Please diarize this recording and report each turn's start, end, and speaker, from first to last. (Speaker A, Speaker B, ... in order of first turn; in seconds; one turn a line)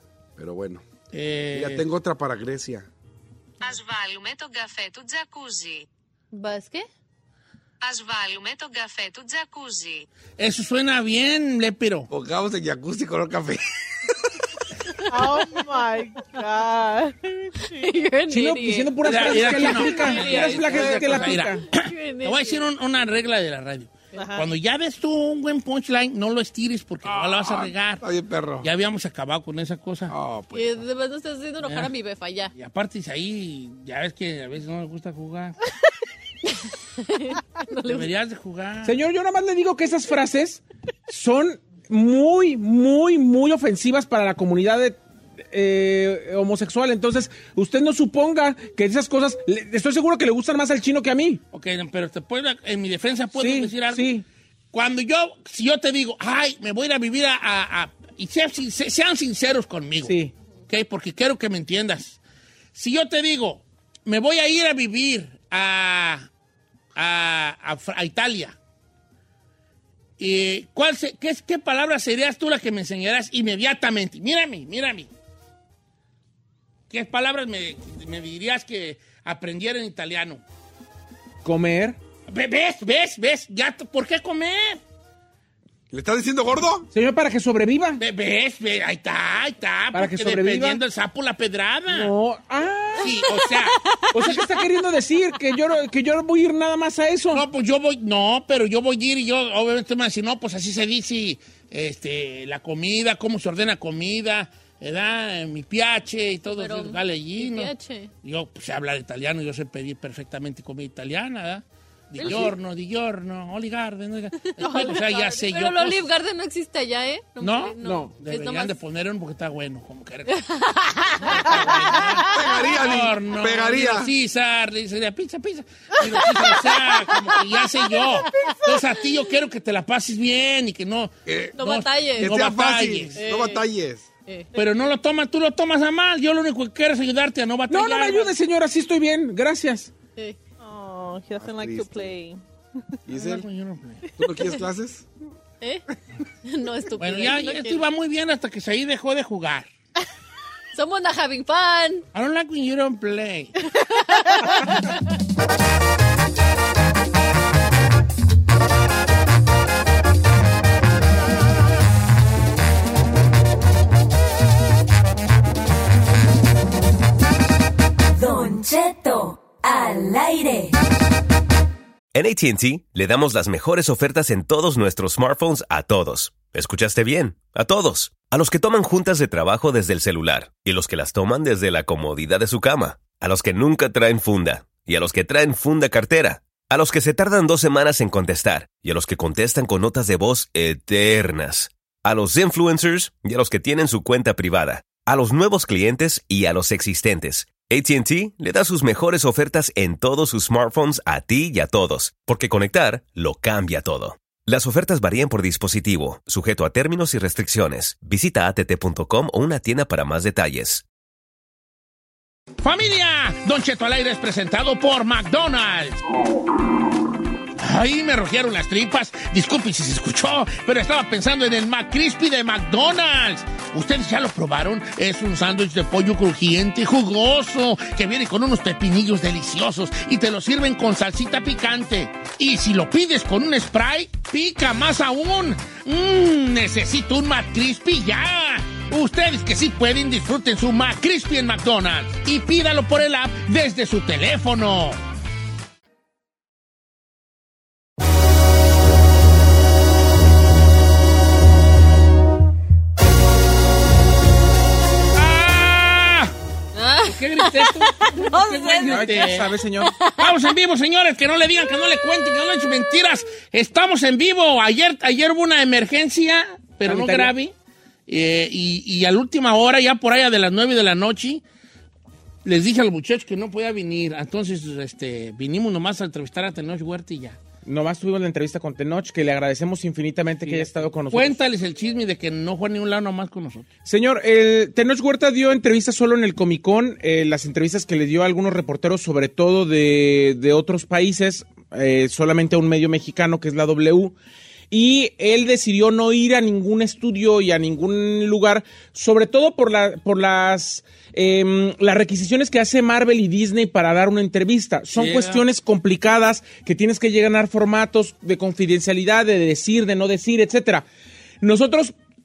Speaker A: 0.4-0.8
Speaker B: 1.1-1.9
Speaker A: 1.5-2.9
Speaker C: 3.6-5.9
Speaker D: 6.3-6.9
Speaker C: 7.8-10.1
Speaker B: 10.4-12.1
Speaker A: 12.1-14.1
Speaker E: 15.1-17.9
Speaker D: 17.6-22.7
Speaker F: 18.3-21.6
Speaker B: 19.0-28.0
Speaker E: 24.1-24.4
Speaker A: 27.1-28.7
Speaker B: 28.6-30.1
Speaker A: 30.1-30.8
Speaker D: 30.5-32.5
Speaker B: 31.6-31.9
Speaker B: 32.5-35.6
Speaker D: 37.0-38.1
Speaker B: 37.9-39.0
Speaker F: 38.8-51.4
Speaker B: 51.5-54.1
Speaker F: 53.3-54.2
Speaker B: 54.7-60.2
Speaker F: 60.0-60.3
Speaker B: 60.7-62.2
Speaker B: 62.8-66.3
Speaker B: 67.0-68.6
Speaker B: 70.2-75.1
Speaker B: 76.9-80.4
Speaker F: 81.4-82.0
Speaker B: 82.3-84.8
Speaker A: 85.9-86.9
Speaker F: 86.9-88.0
Speaker B: 88.0-92.1
Speaker F: 89.9-90.8
Speaker F: 91.9-93.3
Speaker B: 93.0-94.4
Speaker F: 94.1-97.5
Speaker B: 97.3-107.7
Speaker D: 106.5-108.1
Speaker B: 108.2-116.1
Speaker D: 112.2-112.5
Speaker D: 114.6-118.8
Speaker B: 117.4-120.5
Speaker F: 117.8-118.1
Speaker D: 120.3-122.0
Speaker B: 121.2-133.2
Speaker A: 122.3-124.1
Speaker A: 131.3-131.6
Speaker D: 131.6-132.3
Speaker A: 132.2-134.1
Speaker D: 133.2-133.7
Speaker B: 134.6-138.3
Speaker F: 137.7-139.9
Speaker E: 140.6-142.4
Speaker A: 141.4-142.2
Speaker A: 143.1-143.5
Speaker B: 143.1-144.0
Speaker A: 144.2-145.1
Speaker D: 146.4-147.8
Speaker B: 147.0-149.7
Speaker D: 150.8-152.0
Speaker B: 152.1-153.6
Speaker D: 154.1-154.7
Speaker E: 154.3-154.6
Speaker G: 168.2-170.7
Speaker H: 172.1-210.8
Speaker B: 212.6-216.0
Speaker B: 217.6-245.0
Speaker B: 255.1-256.3
Speaker D: 256.8-260.3
Speaker B: 257.1-259.5
Speaker F: 258.8-259.9
Speaker B: 260.1-267.5
Speaker D: 262.0-262.9
Speaker F: 266.8-267.3
Speaker B: 268.1-271.4
Speaker B: 272.4-277.4
Speaker F: 277.6-281.4
Speaker B: 280.4-283.7
Speaker F: 283.9-294.1
Speaker F: 294.7-310.9
Speaker B: 304.9-305.4
Speaker F: 311.4-311.9